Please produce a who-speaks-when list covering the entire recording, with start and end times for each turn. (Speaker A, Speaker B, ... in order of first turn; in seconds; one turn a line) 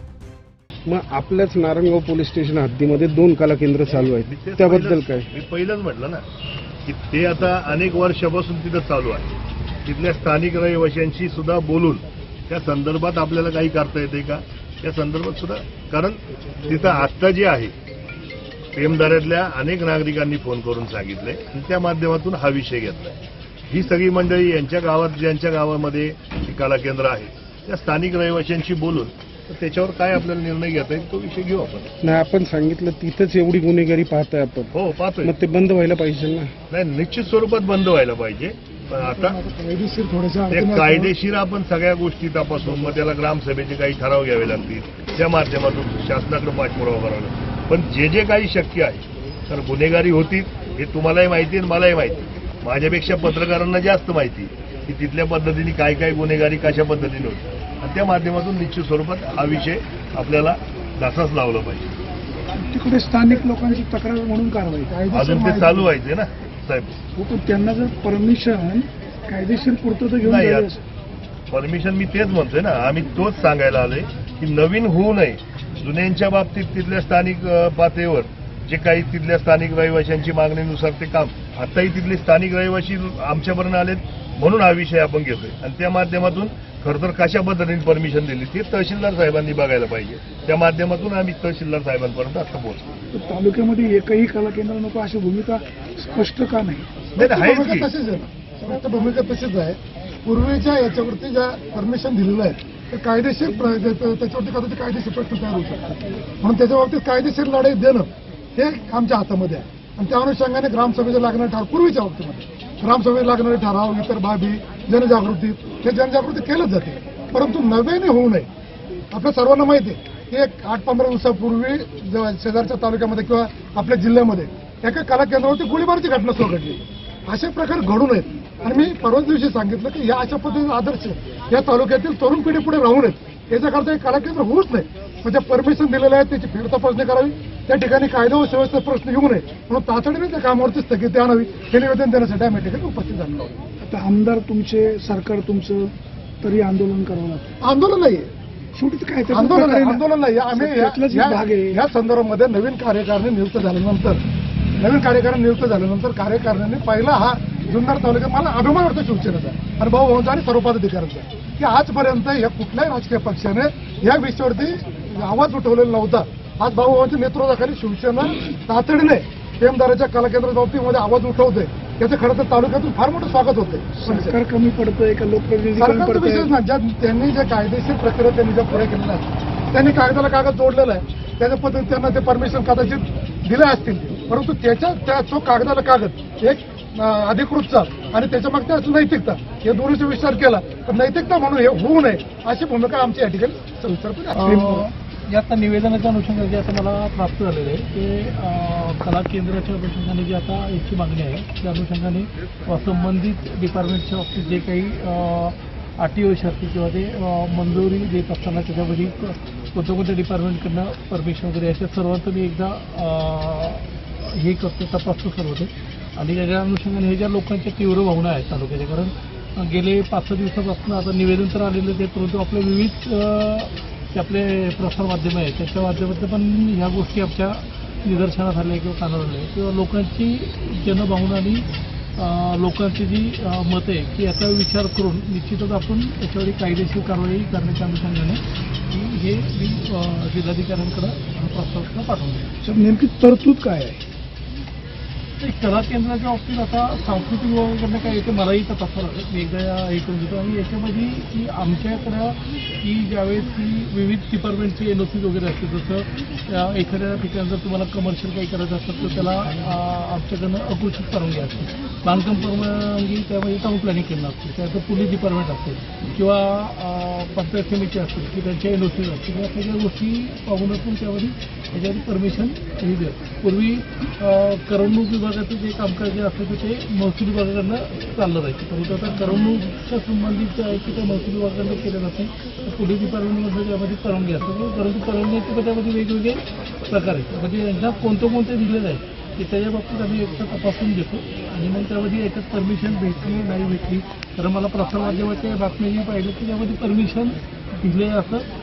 Speaker A: 0.8-5.3
Speaker B: 4.0-6.2
Speaker B: 6.9-9.3
Speaker B: 9.8-17.7
Speaker B: 18.7-23.1
Speaker B: 23.7-31.9
Speaker A: 32.0-34.7
Speaker B: 34.7-35.3
Speaker A: 35.2-36.5
Speaker B: 36.7-39.4
Speaker C: 39.0-41.1
Speaker B: 40.5-61.9
Speaker C: 62.6-65.4
Speaker D: 64.9-65.8
Speaker B: 65.1-67.0
Speaker C: 67.2-70.8
Speaker B: 70.2-70.7
Speaker B: 71.5-92.8
Speaker C: 93.1-96.9
Speaker D: 97.2-118.5
Speaker B: 97.2-97.9
Speaker D: 119.1-143.6
Speaker C: 143.8-145.9
Speaker C: 146.4-147.5
Speaker D: 147.6-148.3
Speaker C: 148.7-151.8
Speaker D: 149.3-154.2
Speaker D: 154.8-174.4
Speaker C: 174.0-176.5
Speaker D: 175.8-194.5
Speaker E: 194.3-231.6
Speaker C: 194.4-194.8
Speaker E: 232.2-242.5
Speaker C: 242.6-244.0
Speaker E: 245.4-298.5